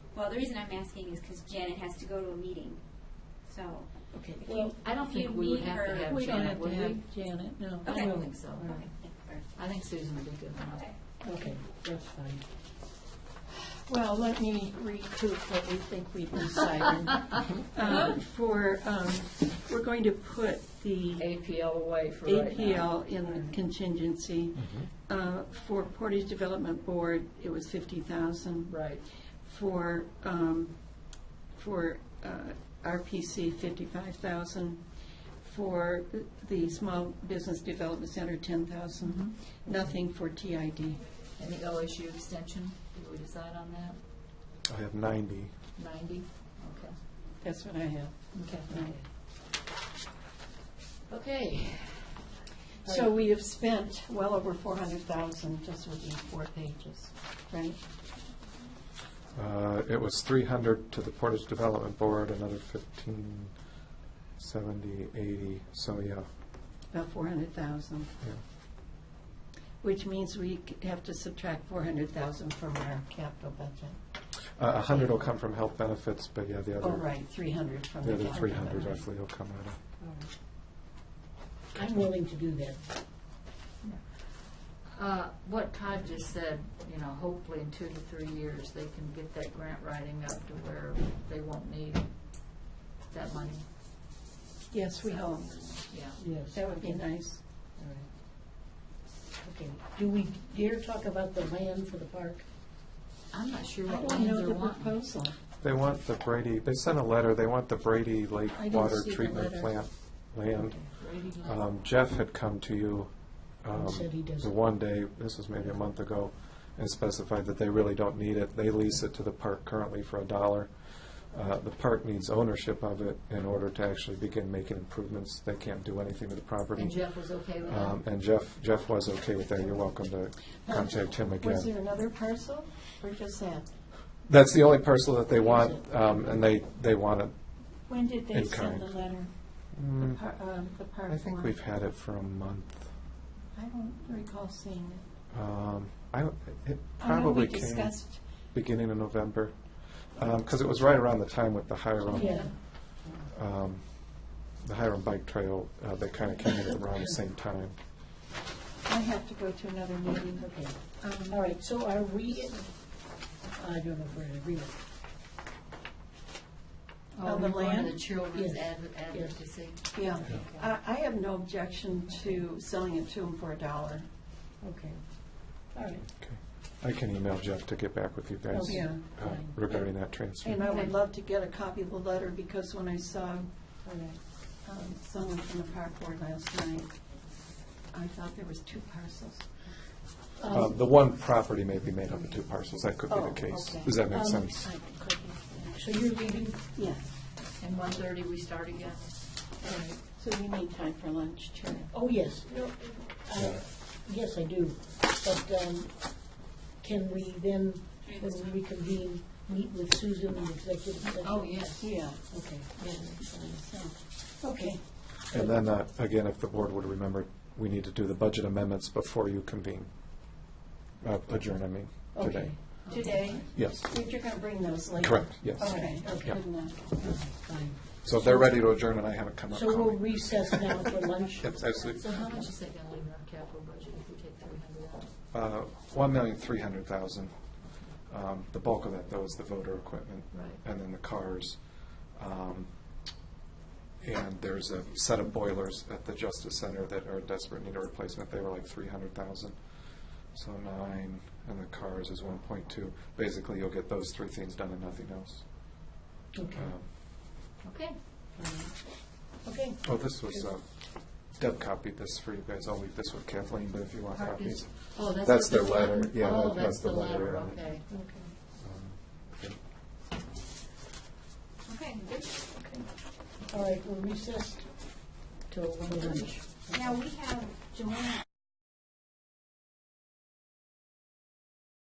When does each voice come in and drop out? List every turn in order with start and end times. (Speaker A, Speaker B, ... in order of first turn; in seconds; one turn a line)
Speaker A: 0.1-3.9
Speaker B: 4.1-4.7
Speaker A: 4.5-6.4
Speaker C: 4.8-7.0
Speaker D: 6.0-8.1
Speaker A: 7.8-8.1
Speaker C: 7.9-8.9
Speaker B: 7.9-8.9
Speaker A: 9.0-9.4
Speaker C: 9.5-10.9
Speaker D: 11.2-11.6
Speaker B: 11.2-12.5
Speaker D: 13.8-21.3
Speaker C: 21.2-23.5
Speaker D: 22.2-28.8
Speaker E: 24.6-24.9
Speaker C: 28.7-29.1
Speaker D: 29.3-34.8
Speaker D: 35.4-41.0
Speaker C: 39.0-39.3
Speaker C: 41.4-44.0
Speaker E: 44.7-45.6
Speaker C: 45.8-47.0
Speaker D: 47.4-49.0
Speaker C: 48.3-48.8
Speaker C: 51.1-52.1
Speaker D: 52.8-57.8
Speaker E: 59.3-63.5
Speaker E: 64.4-66.3
Speaker D: 66.9-68.1
Speaker D: 69.8-74.0
Speaker E: 74.6-77.2
Speaker D: 76.8-79.0
Speaker E: 78.0-79.8
Speaker B: 80.0-80.3
Speaker B: 81.7-82.8
Speaker C: 83.8-93.7
Speaker D: 94.7-95.8
Speaker C: 95.1-96.2
Speaker B: 96.2-97.1
Speaker D: 96.5-97.4
Speaker B: 97.8-98.1
Speaker B: 99.4-102.5
Speaker C: 103.3-105.0
Speaker D: 103.8-105.4
Speaker E: 105.6-131.8
Speaker D: 108.5-109.7
Speaker C: 110.8-111.8
Speaker B: 113.7-114.5
Speaker C: 126.8-128.1
Speaker D: 130.7-133.7
Speaker E: 134.3-137.3
Speaker B: 135.4-136.2
Speaker D: 137.9-139.3
Speaker E: 138.3-139.0
Speaker E: 139.8-140.2
Speaker D: 140.0-141.6
Speaker E: 141.1-142.9
Speaker D: 143.5-145.1
Speaker E: 145.3-148.0
Speaker D: 147.0-148.2
Speaker E: 148.5-157.8
Speaker D: 152.1-152.5
Speaker B: 152.1-153.3
Speaker B: 156.9-157.2
Speaker D: 158.8-161.4
Speaker B: 160.4-164.8
Speaker C: 167.1-170.6
Speaker D: 167.2-168.1
Speaker B: 168.3-169.4
Speaker D: 169.9-174.1
Speaker C: 172.1-172.4
Speaker B: 174.6-176.0
Speaker E: 176.2-180.6
Speaker B: 178.5-179.6
Speaker D: 178.6-183.5
Speaker B: 180.6-180.9
Speaker B: 183.8-184.2
Speaker D: 184.6-186.9
Speaker D: 187.9-189.5
Speaker B: 190.4-190.8
Speaker E: 190.5-194.7
Speaker D: 193.1-195.8
Speaker B: 194.1-194.6
Speaker B: 195.7-196.7
Speaker D: 196.7-197.1
Speaker C: 197.6-199.3
Speaker D: 199.6-201.9
Speaker B: 201.9-211.7
Speaker E: 203.4-203.6
Speaker C: 211.0-211.9
Speaker D: 211.8-212.3
Speaker B: 212.3-213.7
Speaker D: 212.8-214.8
Speaker B: 214.5-214.8
Speaker E: 215.3-220.4
Speaker E: 221.0-223.0
Speaker D: 222.1-227.0
Speaker B: 222.3-222.5
Speaker C: 222.8-223.4
Speaker E: 223.5-223.9
Speaker E: 225.0-226.4
Speaker B: 225.5-228.7
Speaker E: 228.0-230.8
Speaker B: 229.5-231.7
Speaker E: 231.4-232.5
Speaker C: 231.9-235.1
Speaker E: 235.3-242.7
Speaker C: 237.6-237.9
Speaker C: 240.3-240.6
Speaker E: 244.0-255.9
Speaker B: 256.3-256.7
Speaker E: 256.6-256.9
Speaker C: 257.6-258.0
Speaker B: 258.4-260.5
Speaker E: 259.8-267.6
Speaker C: 264.1-267.9
Speaker B: 267.9-268.3
Speaker E: 268.6-269.6
Speaker A: 271.7-272.5
Speaker B: 273.5-277.0
Speaker A: 276.8-277.8